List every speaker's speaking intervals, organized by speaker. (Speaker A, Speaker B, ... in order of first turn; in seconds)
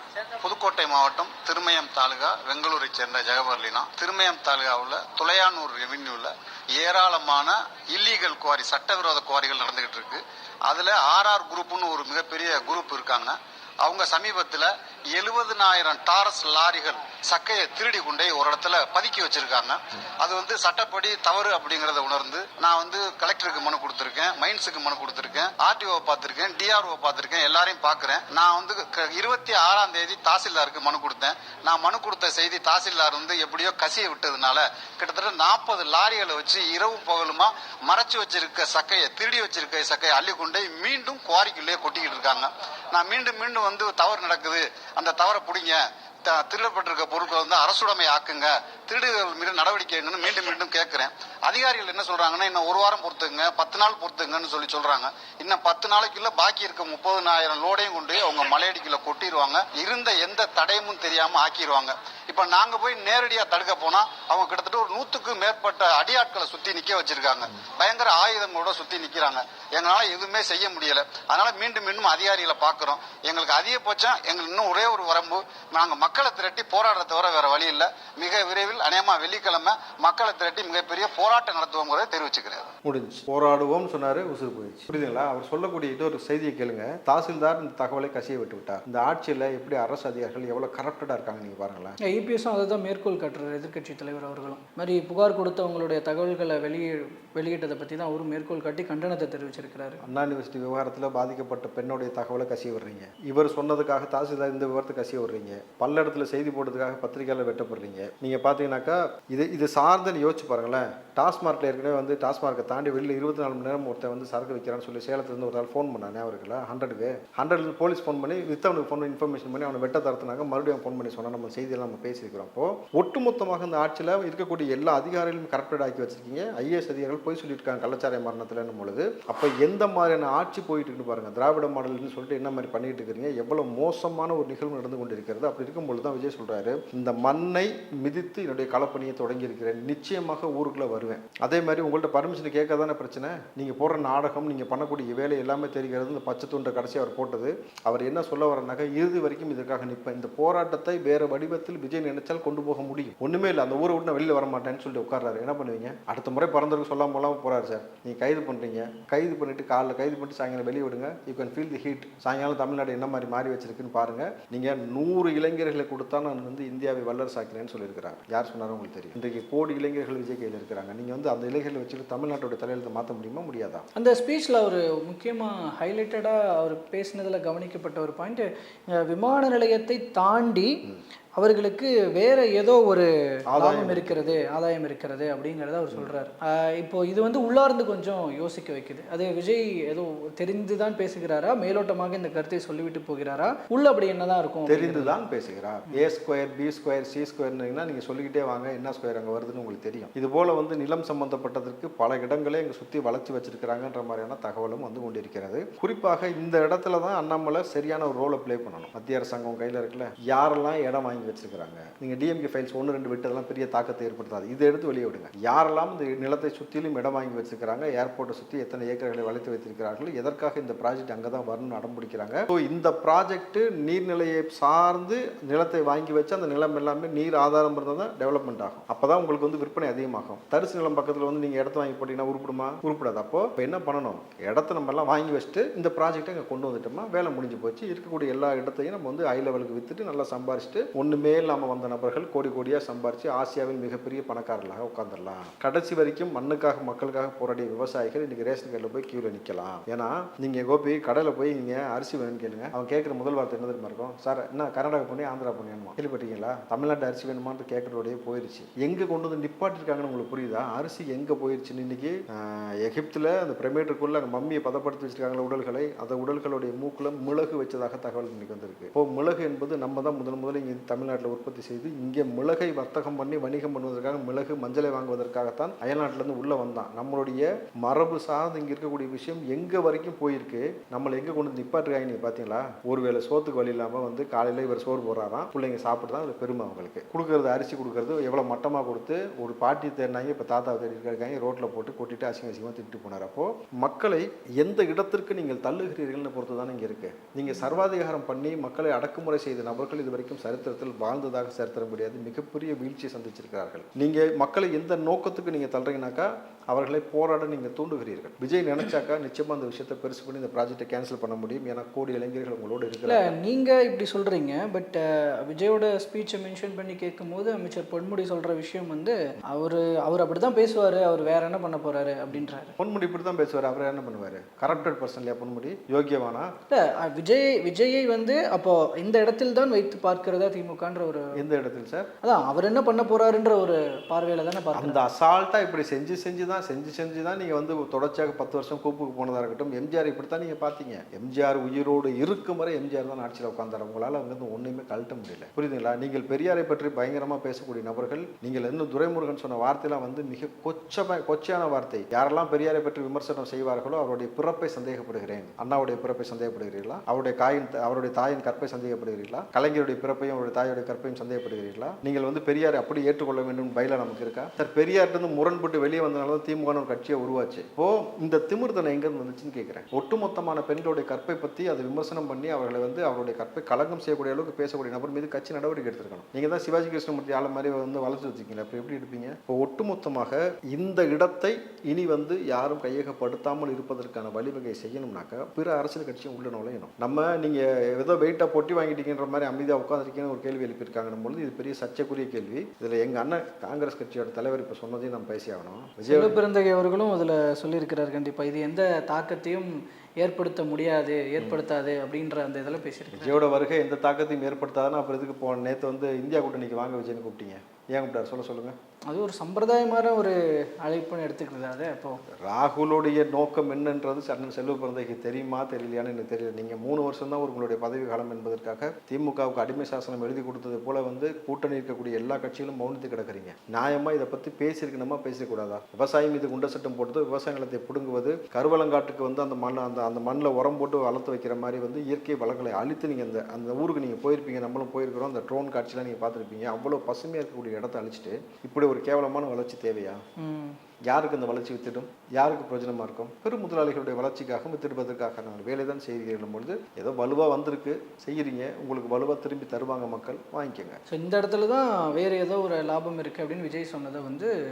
Speaker A: 0.2-82.7
Speaker B: 82.8-92.0, 100.0-173.8, 183.5-184.5, 194.7-313.4, 322.3-326.5, 331.4-332.1, 334.7-396.4, 403.1-408.8, 412.4-440.2, 441.1-451.0
Speaker C: 92.0-100.0, 173.9-180.8, 181.4-195.2, 313.1-322.7, 326.7-331.3, 332.2-335.0, 396.1-403.4, 409.1-412.2, 440.4-440.8, 451.1-454.5